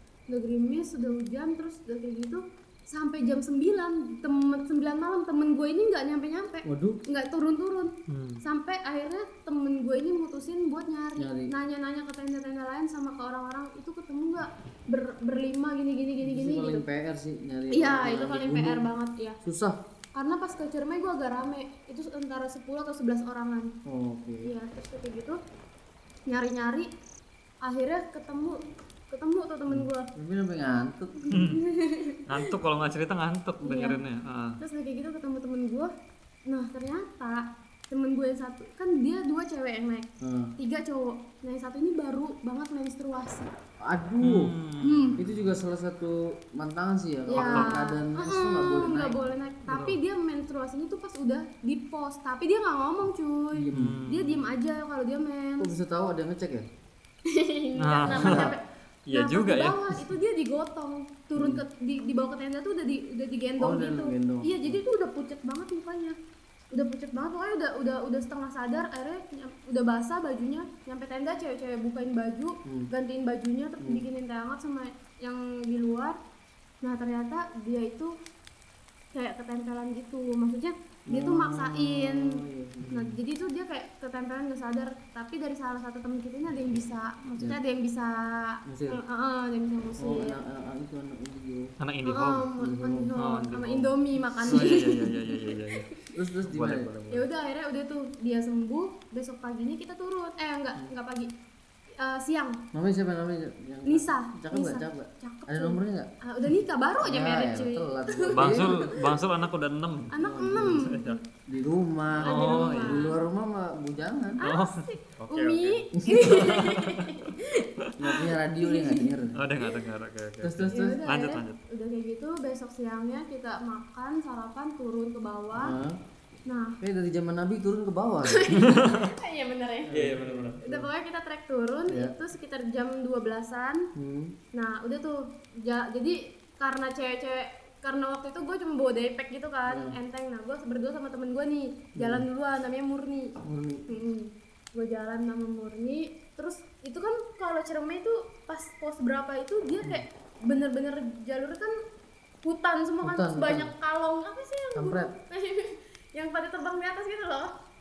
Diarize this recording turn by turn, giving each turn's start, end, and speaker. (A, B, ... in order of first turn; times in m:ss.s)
0:00.3-0:16.8 A
0:06.6-0:07.0 B
0:08.1-0:08.4 C
0:11.2-0:11.5 B
0:16.2-0:18.8 B
0:17.7-0:19.4 A
0:19.4-0:19.8 B
0:20.1-0:23.7 A
0:23.8-0:24.5 B
0:24.4-0:25.4 A
0:26.3-0:26.9 A
0:27.6-0:30.1 A
0:29.7-0:31.4 B
0:31.2-0:32.5 A
0:31.3-0:31.6 C
0:32.3-0:34.6 C
0:33.6-0:34.0 A
0:34.6-0:35.9 A
0:36.5-0:43.5 A
0:40.2-0:40.5 B
0:43.8-0:44.5 B
0:44.2-0:45.5 C
0:44.8-0:45.2 A
0:45.2-0:49.2 B
0:47.3-0:55.7 A
0:47.3-0:47.8 C
0:49.7-0:50.0 C
0:53.5-0:54.0 B
0:53.7-0:54.4 C
0:55.6-0:56.7 B
0:57.2-1:06.2 A
0:57.8-0:58.5 C
0:58.0-0:58.6 B
0:59.0-1:00.1 C
1:01.4-1:01.6 B
1:03.6-1:04.8 B
1:06.7-1:16.2 A
1:12.6-1:12.9 B
1:16.8-1:18.1 A
1:19.1-1:30.4 A
1:21.1-1:23.2 B
1:28.6-1:29.0 B
1:30.0-1:31.7 B
1:31.8-1:32.5 C
1:32.0-1:36.1 A
1:32.6-1:33.1 B
1:33.2-1:33.9 C
1:34.4-1:34.9 B
1:34.5-1:35.9 C
1:36.1-1:37.0 B
1:36.4-1:37.3 C
1:37.1-1:41.3 A
1:42.0-1:42.6 A
1:42.7-1:46.1 B
1:43.8-1:49.2 A
1:47.0-1:48.9 B
1:48.3-1:51.2 C
1:50.1-1:51.2 A
1:50.1-1:50.9 B
1:51.5-1:54.4 B
1:52.2-1:53.1 C
1:52.2-1:53.2 A
1:54.4-1:59.2 A
1:54.4-1:57.9 C
1:58.0-1:59.5 B
1:59.4-2:01.6 C
2:00.4-2:00.9 B
2:00.7-2:05.7 A
2:05.5-2:06.0 B
2:06.4-2:06.8 A
2:06.8-2:08.5 B
2:08.2-2:10.0 A
2:08.5-2:09.2 C
2:09.9-2:10.9 B
2:09.9-2:10.6 C
2:10.6-2:13.9 A
2:11.9-2:12.1 B
2:13.9-2:14.4 B
2:14.5-2:23.4 A
2:19.7-2:20.0 B
2:22.0-2:22.2 B
2:23.4-2:23.8 B
2:23.9-2:31.7 A
2:32.4-2:37.5 A
2:33.0-2:33.7 B
2:34.7-2:35.1 B